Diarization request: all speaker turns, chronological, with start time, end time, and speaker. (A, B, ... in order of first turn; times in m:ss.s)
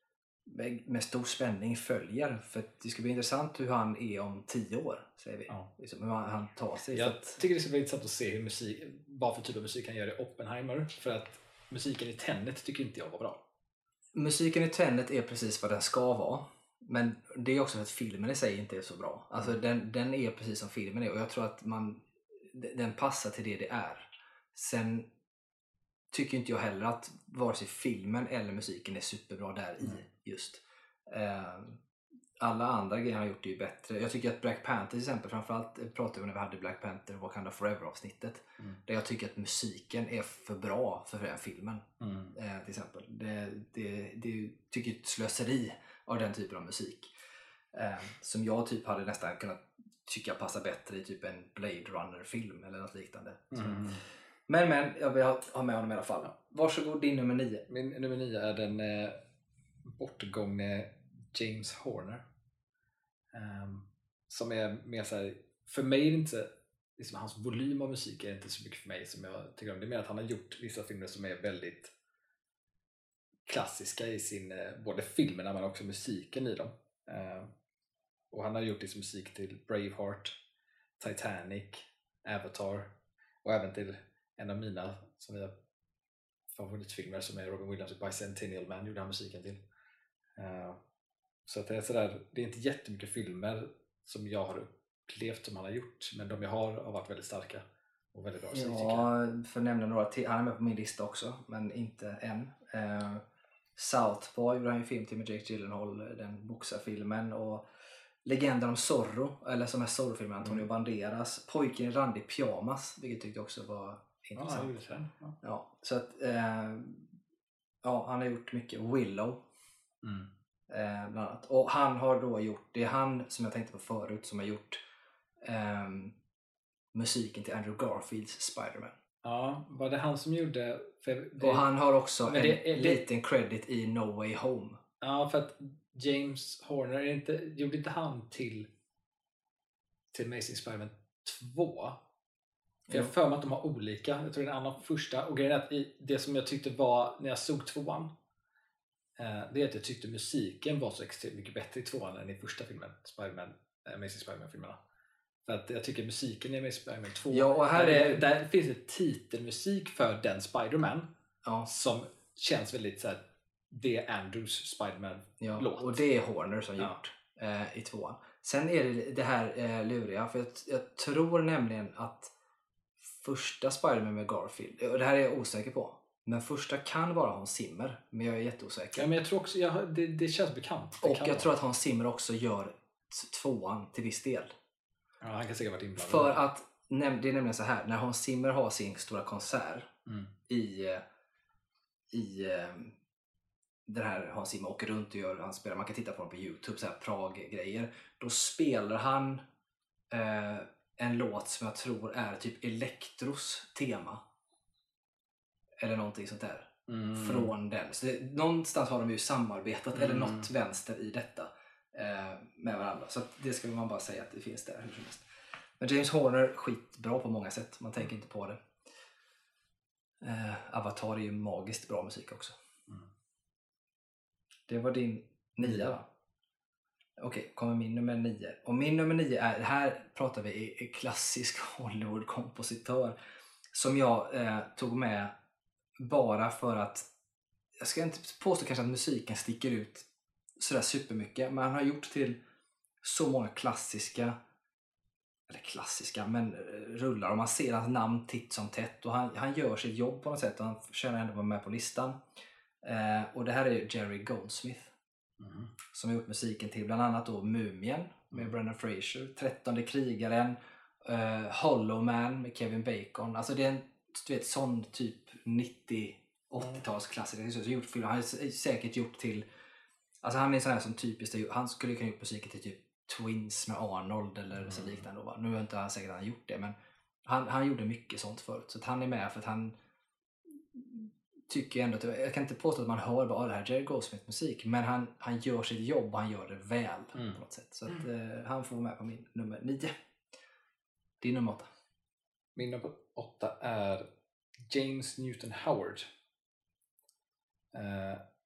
0:00.4-0:07.4 A
0:06.9-0:13.4 B
0:14.1-0:25.1 A
0:26.1-0:31.8 A
0:32.4-0:47.1 A
0:42.0-0:42.4 B
0:47.7-0:54.0 A
0:53.5-0:54.0 B
0:54.5-0:57.6 A
0:57.7-0:59.2 B
0:59.8-1:02.2 B
1:03.3-1:11.9 B
1:13.5-1:17.5 B
1:18.3-1:20.3 B
1:21.0-1:25.5 B
1:26.5-1:29.6 B
1:30.4-1:30.8 B
1:31.4-1:39.1 B
1:38.5-1:43.2 A
1:43.8-1:47.6 A
1:48.2-1:54.7 A
1:54.4-1:55.4 B
1:55.4-1:57.1 A
1:57.8-1:59.4 A
2:00.0-2:00.3 B
2:00.7-2:04.8 A
2:05.4-2:06.1 A
2:06.9-2:08.9 A
2:09.2-2:11.7 B
2:11.4-2:14.8 A
2:12.2-2:13.0 B
2:15.0-2:18.7 B
2:20.1-2:22.0 B
2:22.9-2:28.1 B
2:29.2-2:34.8 B
2:35.5-2:41.1 B
2:37.3-2:38.2 A
2:41.6-2:46.0 B
2:45.4-2:52.3 A
2:53.2-2:59.2 A
2:59.0-3:01.5 B
3:01.0-3:04.5 A
3:05.2-3:06.4 B
3:06.0-3:09.9 A
3:10.5-3:11.0 A
3:12.1-3:12.9 A
3:13.9-3:19.4 A
3:20.1-3:24.2 A
3:25.8-3:35.2 A
3:26.9-3:27.5 B
3:29.9-3:30.5 B
3:35.8-3:38.6 A
3:40.2-3:42.5 A
3:44.7-3:46.0 A
3:47.2-3:53.2 A
3:53.7-3:55.3 A
3:56.0-3:57.0 A
3:57.8-4:00.0 A
4:00.6-4:02.4 A
4:03.0-4:04.4 A
4:05.5-4:12.2 A
4:12.8-4:14.9 A
4:15.4-4:15.7 B
4:15.9-4:29.4 A
4:30.2-4:39.8 A
4:34.6-4:35.0 B
4:40.7-4:49.9 A
4:51.2-4:51.7 A
4:52.5-4:54.0 B
4:54.7-4:56.1 B
4:57.7-4:58.2 B